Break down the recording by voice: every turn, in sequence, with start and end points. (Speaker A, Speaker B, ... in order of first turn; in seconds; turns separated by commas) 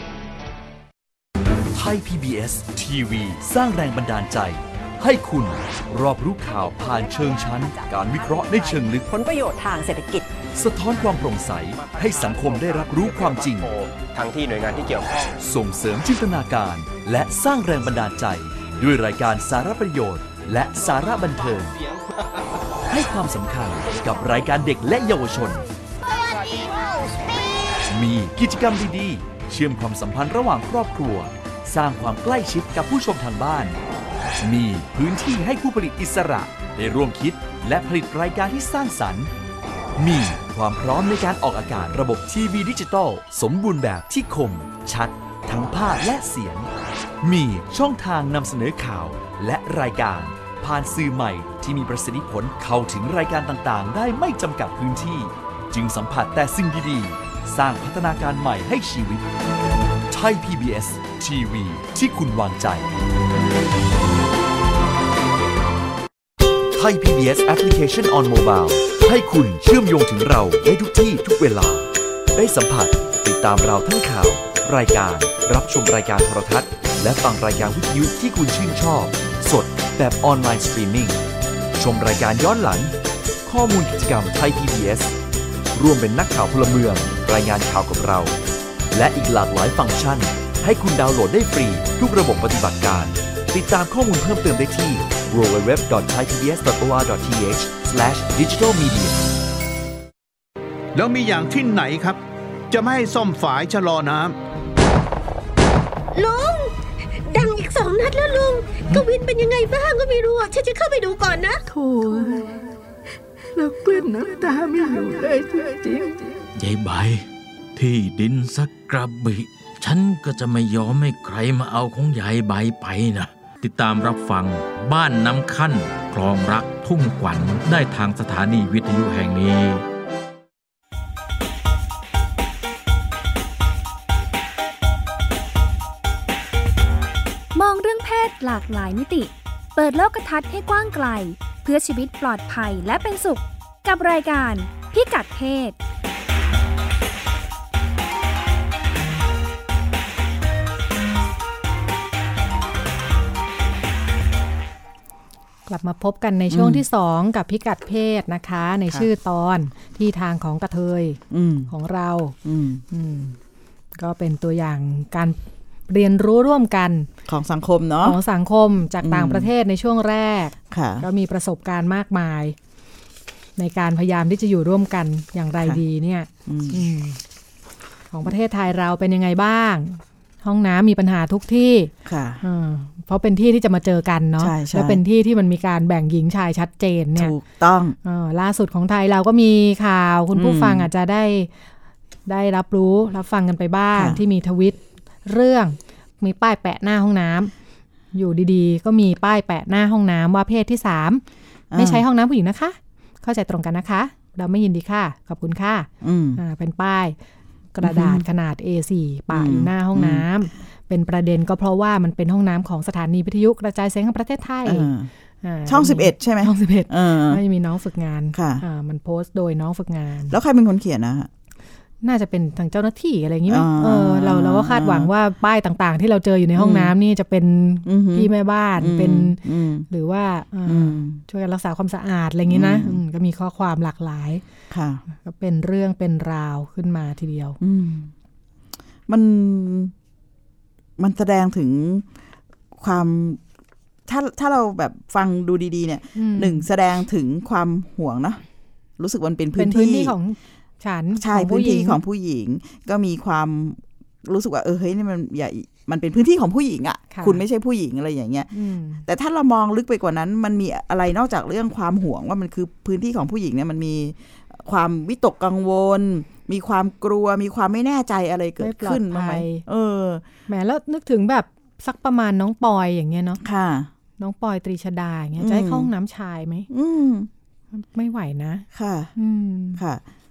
Speaker A: 1.7-9.1, Speaker B: 6.7-10.3, Speaker A: 10.5-13.7, Speaker C: 11.8-15.4, Speaker A: 15.4-21.8, Speaker A: 22.9-25.6, Speaker A: 27.9-33.8, Speaker A: 34.4-39.3, Speaker A: 40.0-46.7, Speaker A: 47.2-59.2, Speaker A: 60.1-62.9, Speaker A: 66.7-81.2, Speaker A: 81.8-82.9, Speaker A: 83.5-85.1, Speaker A: 85.7-88.3, Speaker A: 88.9-99.2, Speaker D: 100.9-102.2, Speaker D: 102.7-104.4, Speaker E: 106.1-106.7, Speaker E: 107.3-111.6, Speaker F: 111.7-112.7, Speaker F: 113.5-116.4, Speaker G: 116.5-129.8, Speaker H: 137.5-145.8, Speaker I: 155.7-162.3, Speaker J: 156.5-156.8, Speaker J: 161.3-161.7, Speaker J: 162.4-162.8, Speaker I: 162.9-163.3, Speaker I: 163.9-167.1, Speaker J: 167.2-168.2, Speaker I: 168.0-172.6, Speaker J: 169.0-169.5, Speaker J: 170.7-171.1, Speaker I: 173.6-177.2, Speaker J: 176.4-176.8, Speaker I: 178.1-187.3, Speaker J: 182.0-182.4, Speaker J: 184.4-185.0, Speaker J: 187.1-188.0, Speaker I: 188.0-191.5, Speaker J: 190.3-190.9, Speaker I: 192.2-197.5, Speaker J: 193.9-194.2, Speaker I: 198.1-201.2, Speaker J: 201.7-202.0, Speaker I: 201.8-207.1, Speaker J: 206.0-206.4, Speaker I: 207.7-214.9, Speaker J: 207.8-208.2, Speaker J: 209.3-210.2, Speaker J: 214.6-215.1, Speaker I: 215.4-220.3, Speaker J: 215.7-217.4, Speaker J: 218.3-218.6, Speaker J: 220.3-221.3, Speaker I: 222.0-234.4, Speaker J: 223.5-225.1, Speaker J: 226.6-226.9, Speaker J: 227.8-229.9, Speaker J: 230.7-231.2, Speaker J: 232.5-233.0, Speaker J: 234.7-235.0, Speaker I: 235.1-237.6, Speaker J: 237.6-238.1, Speaker J: 239.1-239.9, Speaker J: 241.0-242.1, Speaker J: 242.8-243.4, Speaker J: 244.1-248.4, Speaker I: 246.2-246.7, Speaker J: 249.0-250.1, Speaker I: 249.6-252.0, Speaker J: 251.1-258.5, Speaker I: 257.1-257.4, Speaker I: 258.5-259.0, Speaker J: 259.0-270.2, Speaker I: 268.6-269.6, Speaker I: 270.5-273.4, Speaker J: 273.4-273.9, Speaker I: 274.2-276.7, Speaker J: 275.4-275.9, Speaker J: 276.7-277.3, Speaker I: 277.7-279.8, Speaker J: 278.7-279.1, Speaker J: 279.8-280.0